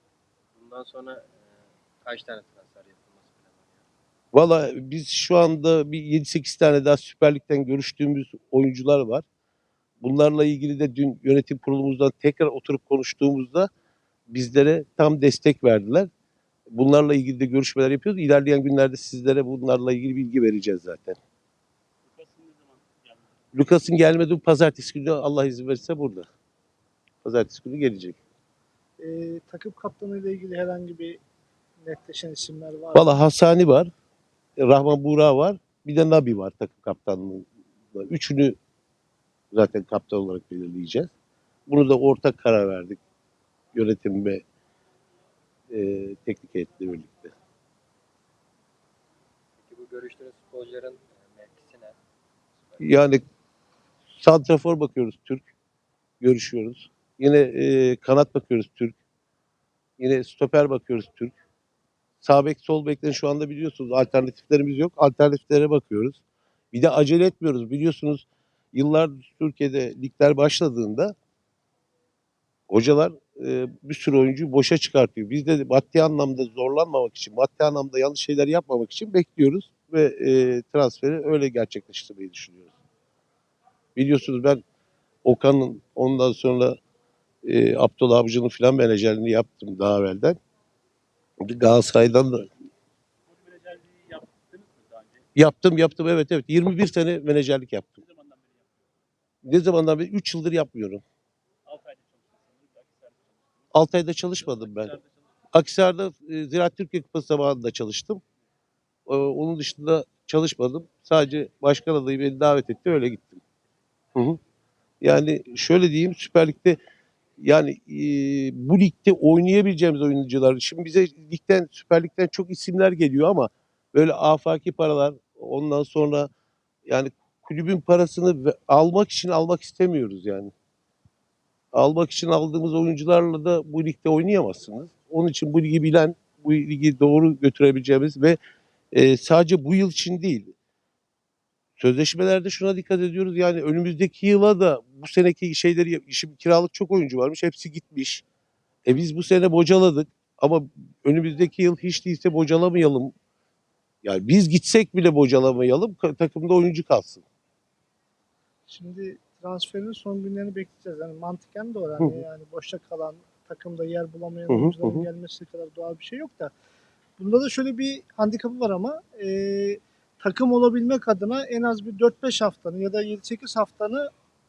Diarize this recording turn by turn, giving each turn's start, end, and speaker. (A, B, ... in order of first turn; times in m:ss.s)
0:00.5-0:03.9 A
0:04.3-0:09.2 B
0:10.0-0:13.7 B
0:14.3-0:16.1 B
0:16.7-0:21.2 B
0:22.0-0:23.5 C
0:23.5-0:26.3 B
0:27.2-0:28.2 B
0:29.0-0:31.2 D
0:31.8-0:33.1 D
0:32.9-0:33.9 B
0:34.6-0:38.6 B
0:39.5-0:41.1 B
0:41.7-0:43.0 B
0:43.7-0:44.4 B
0:45.7-0:47.3 B
0:49.6-0:52.0 A
0:52.5-0:53.0 A
0:52.8-0:53.2 B
0:54.2-0:55.4 B
0:56.2-0:59.0 B
1:00.0-1:01.3 B
1:02.2-1:06.2 B
1:06.7-1:11.1 B
1:12.7-1:22.7 B
1:24.0-1:24.6 B
1:25.2-1:26.8 B
1:27.4-1:30.4 B
1:31.4-1:32.5 B
1:33.2-1:35.2 C
1:35.4-1:38.0 B
1:37.9-1:38.9 C
1:39.4-1:41.0 B
1:41.6-1:45.4 C
1:43.7-1:44.9 B
1:45.5-1:48.2 B
1:49.1-1:53.4 B
1:55.0-1:56.8 B
1:57.4-2:06.3 B
2:06.8-2:10.5 B
2:11.7-2:18.4 B
2:18.9-2:20.5 B
2:21.8-2:28.2 B
2:28.8-2:33.1 B
2:34.0-2:37.2 B
2:38.7-2:46.5 D
2:44.5-2:45.0 B
2:47.2-2:54.1 D